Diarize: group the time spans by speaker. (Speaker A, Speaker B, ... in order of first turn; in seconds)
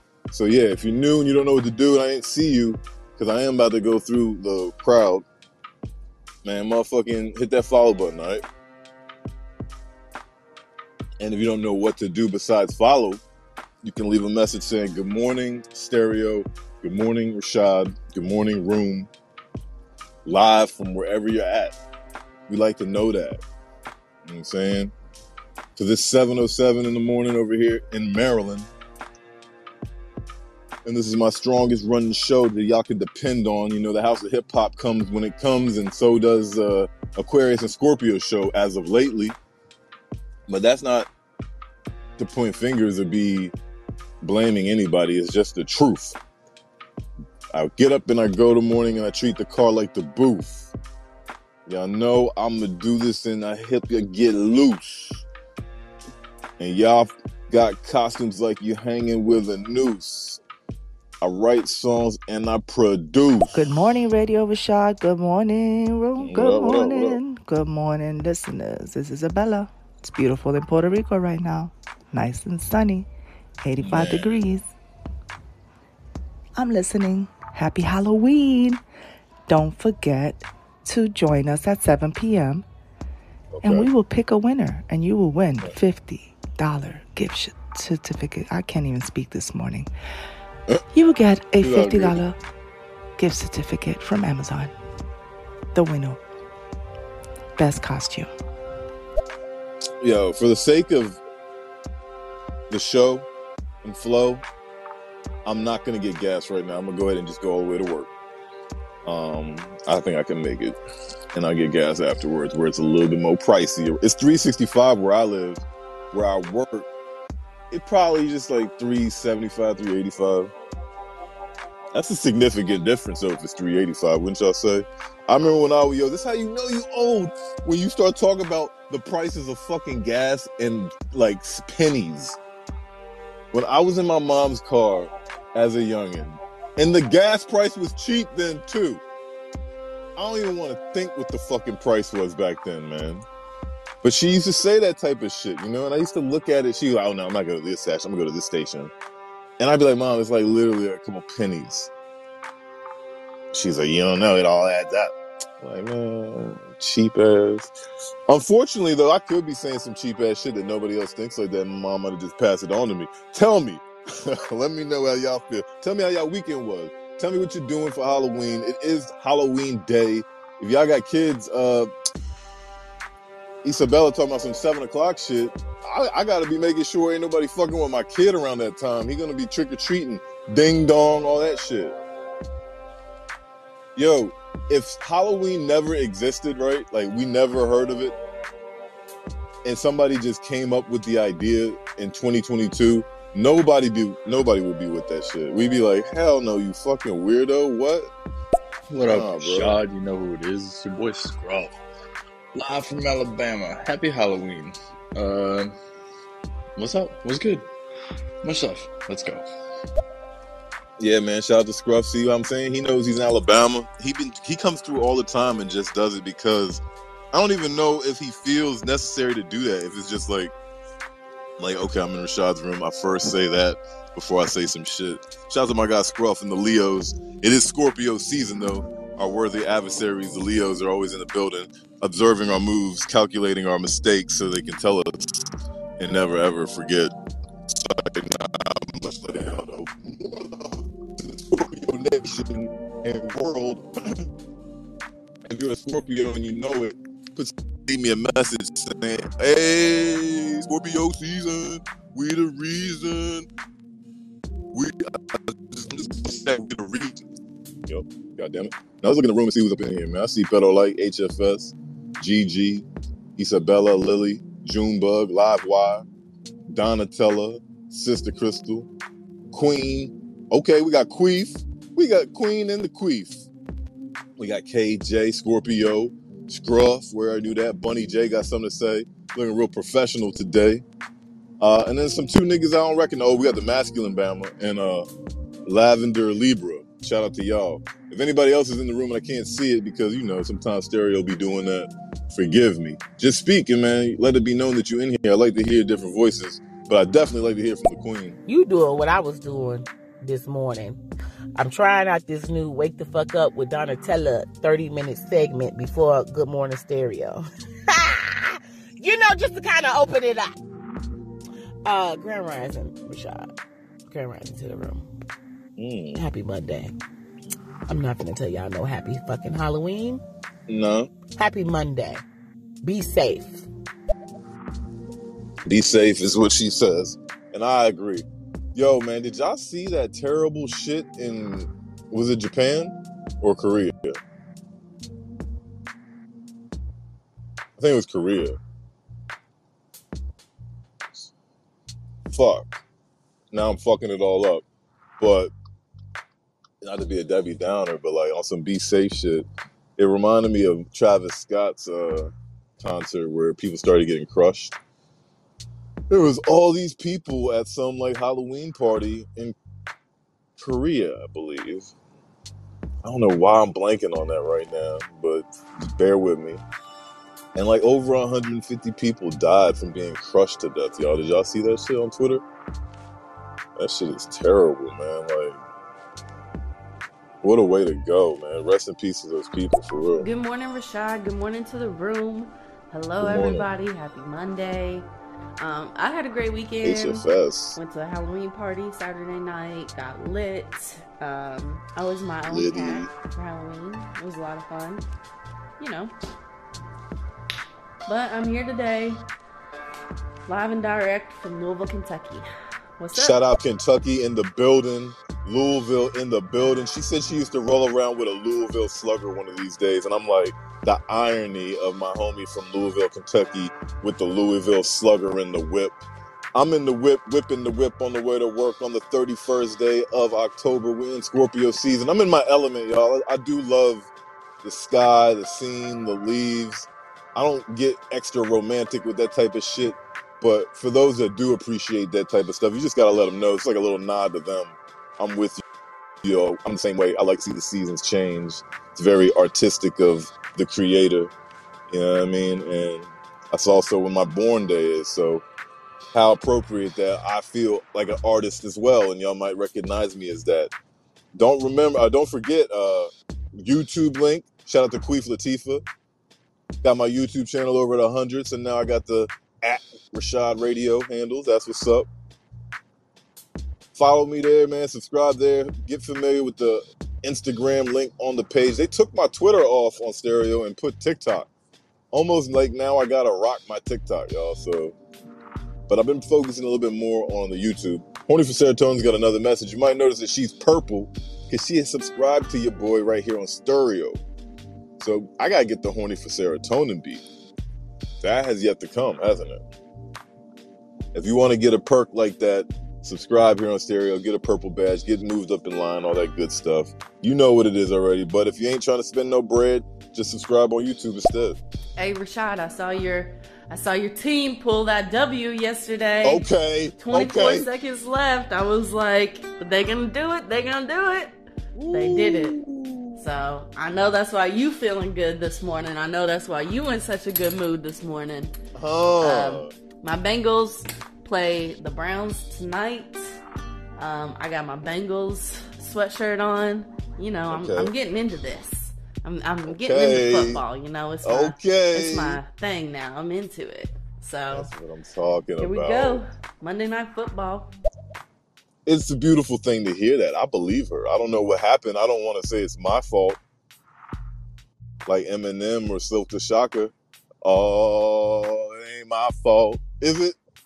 Speaker A: 0.3-5.2, 6.4-8.4, 11.2-13.2, 13.8-19.1, 20.2-21.8, 22.5-23.4, 24.2-24.9, 25.8-28.7, 30.8-39.4, 40.5-41.1, 42.2-43.5, 44.2-46.2, 47.5-50.7, 51.6-55.2, 56.6-60.4, 61.2-63.7, 66.2-67.2, 73.8-74.3, 83.5-83.9, 91.6-92.2, 100.0-101.2, 102.7-103.3, 103.8-104.4, 105.4-108.1, 109.0-110.8, 111.3-116.9, 117.7-120.5, 121.9-132.4, 133.5-139.0, 140.2-143.2, 144.0-148.9, 149.6-151.9, 153.5-157.7, 158.3-171.9, 173.6-182.0, 183.9-188.2, 189.6-198.1, 199.1-199.8, 211.0-220.5, 221.6-235.4, 236.0-237.1, 237.7-244.3, 245.4-253.5, 254.7-257.2, 257.9-266.1, 266.7-268.9, 269.5-273.5, 274.4-280.8, 281.6-285.1, 285.6-298.4, 315.8-316.2, 320.7-321.1, 325.6-334.2, 337.8-338.6, 342.3-342.8, 343.5-344.6, 345.2-345.5, 346.8-354.8, 356.1-359.6, 360.6-361.9, 363.0-366.6, 367.5-372.4, 373.8-375.6, 377.4-380.3, 383.2-383.7, 386.8-387.8, 392.5-393.1, 403.1-416.0, 416.5-424.1, 424.6-435.6, 436.2-441.3, 441.9-445.4, 446.1-450.7, 451.3-455.8, 456.8-462.1, 463.9-471.5, 472.1-474.9, 475.9-484.2, 485.0-487.2, 488.2-489.6, 491.1-501.6, 506.2-507.7, 511.7-513.2, 518.7-519.7, 527.5-527.9, 529.6-530.6, 531.2-532.4, 534.5-536.2, 538.9-543.4, 545.0-550.4
Speaker B: 63.5-73.1, 73.6-74.7, 76.5-78.8, 79.5-82.6, 83.6-89.9, 90.9-92.4, 93.2-94.7, 95.7-96.2, 97.6-98.3
Speaker C: 198.9-201.7, 202.5-205.7, 206.8-207.7, 208.4-209.4
Speaker D: 298.4-301.0, 301.6-308.5, 309.0-310.5, 311.8-313.5, 314.1-315.1, 316.1-316.9, 317.9-320.2, 321.4-322.2, 322.8-323.6
Speaker E: 380.2-385.1, 385.6-395.0, 395.8-396.1, 398.1-399.2, 400.4-402.4, 403.0-403.4, 502.0-506.4, 507.0-511.3, 511.9-512.5, 513.2-518.5, 519.2-523.2, 524.0-534.7, 535.6-537.7